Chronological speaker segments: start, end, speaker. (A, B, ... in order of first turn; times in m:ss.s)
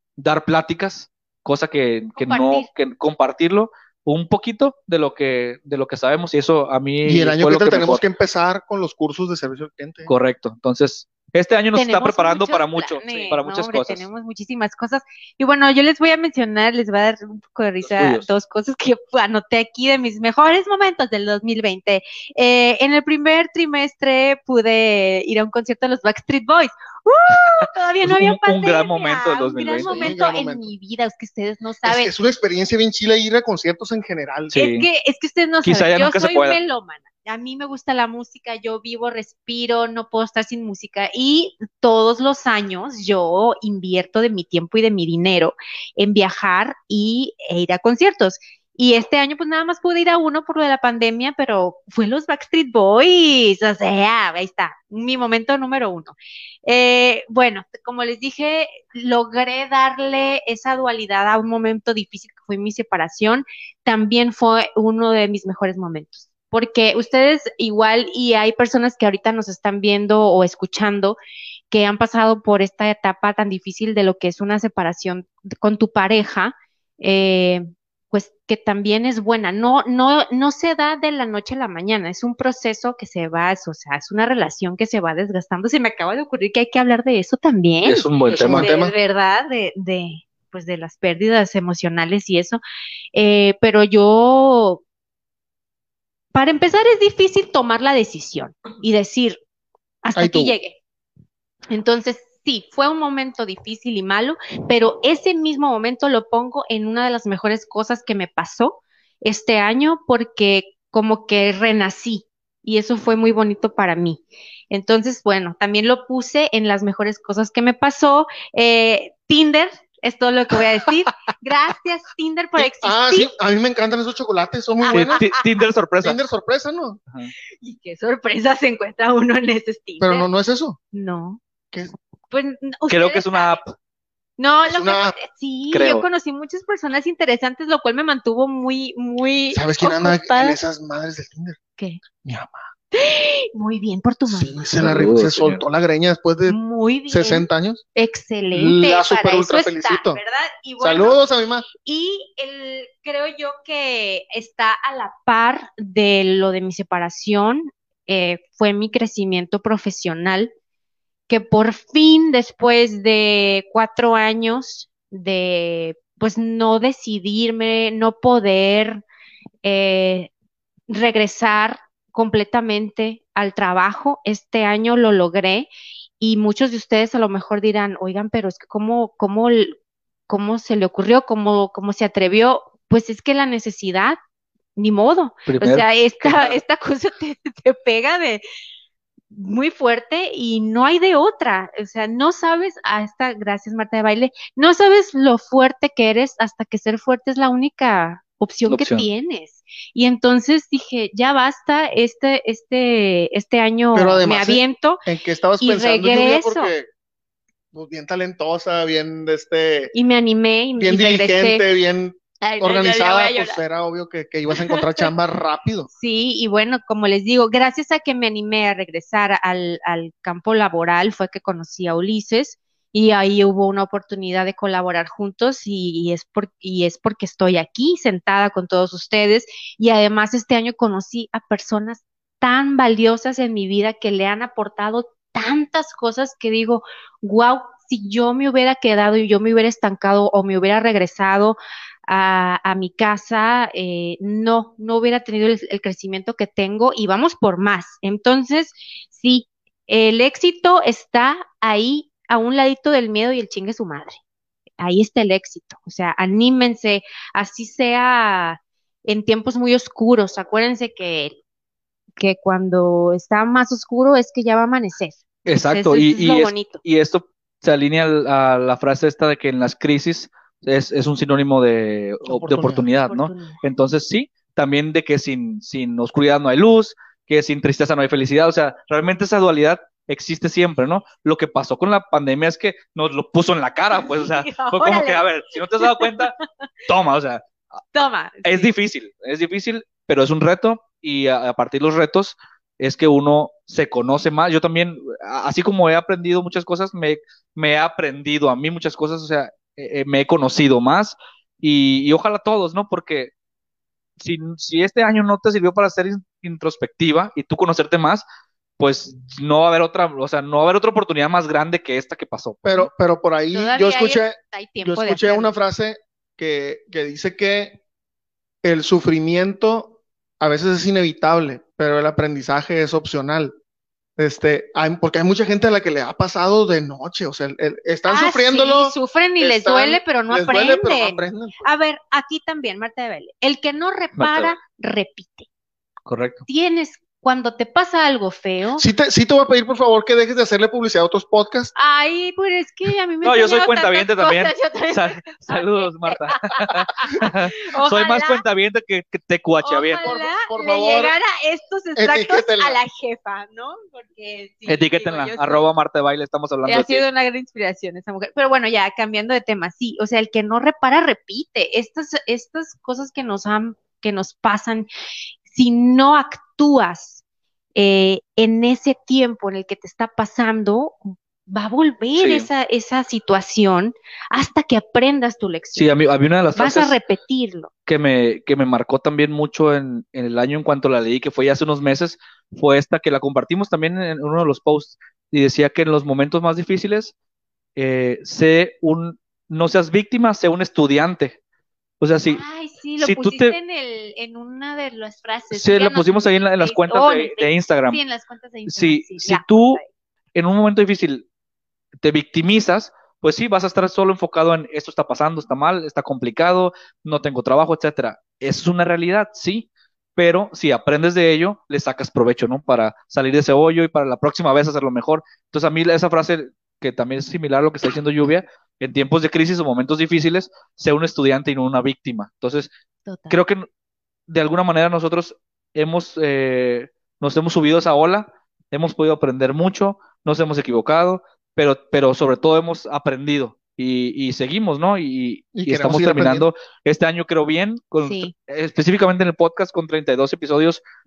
0:00.2-0:08.0 A
0:02.2-0:02.7 B
0:07.0-0:10.1 C
0:10.1-0:14.1 A
0:11.7-0:32.1 B
0:17.8-0:18.3 A
0:27.6-0:30.1 A
0:29.8-0:30.7 C
0:31.8-0:34.6 C
0:34.5-0:34.9 A
0:34.6-1:11.2 B
0:35.6-0:36.6 A
1:11.7-1:32.6 B
1:27.8-1:28.7 A
1:28.3-1:28.9 C
1:33.1-1:34.8 B
1:36.3-1:39.4 B
1:40.0-1:40.8 B
1:40.1-1:40.5 C
1:41.7-2:03.3 B
2:02.6-2:05.2 C
2:04.8-2:05.6 B
2:04.9-2:06.2 A
2:06.0-2:07.0 C
2:07.6-2:10.3 B
2:10.0-2:10.8 C
2:10.9-2:11.4 B
2:12.3-2:13.6 B
2:12.9-2:13.7 A
2:14.4-2:20.6 B
2:14.6-2:15.2 C
2:15.7-2:16.0 A
2:19.5-2:21.6 C
2:22.2-2:22.7 C
2:22.9-2:24.6 B
2:24.3-2:27.8 C
2:24.8-2:25.6 A
2:26.4-2:31.2 B
2:28.5-2:30.2 C
2:30.8-2:31.7 C
2:31.8-2:40.5 B
2:41.3-2:49.0 B
2:49.6-2:50.3 B
2:50.9-2:55.7 B
2:56.2-2:59.8 B
3:00.3-3:04.2 B
3:04.8-3:08.4 B
3:05.5-3:06.6 A
3:09.3-3:25.0 B
3:18.7-3:19.0 A
3:23.9-3:26.9 C
3:25.6-3:26.7 B
3:27.7-3:29.9 C
3:29.9-3:31.6 B
3:30.8-3:35.9 C
3:32.4-3:33.6 B
3:34.5-3:35.1 B
3:35.9-4:14.2 B
4:14.8-4:21.4 B
4:22.2-4:26.8 B
4:25.4-4:46.3 A
4:32.2-4:32.8 C
4:33.0-4:33.6 B
4:43.9-4:45.2 B
4:45.8-4:46.3 B
4:46.9-4:47.4 A
4:47.9-4:48.7 B
4:48.4-5:03.3 A
5:04.2-5:08.2 A
5:08.8-5:12.9 A
5:12.6-5:17.8 C
5:13.5-5:15.5 B
5:18.6-5:23.5 C
5:24.2-5:31.7 C
5:28.1-5:35.5 B
5:34.2-5:34.5 A
5:36.0-5:36.4 A
5:36.5-5:38.8 B
5:38.8-5:41.7 C
5:41.7-5:48.4 B
5:43.2-5:50.1 A
5:49.6-5:55.6 B
5:50.0-5:51.2 C
5:51.9-5:52.8 C
5:54.7-5:57.0 A
5:56.6-6:04.9 B
6:05.5-6:07.2 B
6:07.7-6:15.9 B
6:12.2-6:12.5 A
6:15.7-6:17.0 A
6:16.5-6:17.7 B
6:17.9-6:27.1 A
6:27.8-6:31.4 A
6:32.0-6:32.4 A
6:32.3-6:39.9 B
6:33.0-6:33.5 A
6:35.5-6:38.0 A
6:38.7-6:39.8 A
6:40.3-6:41.2 A
6:42.0-7:02.7 A
7:03.0-7:03.4 B
7:03.3-7:03.7 A
7:04.3-7:20.8 A
7:15.5-7:16.4 C
7:18.0-7:18.3 B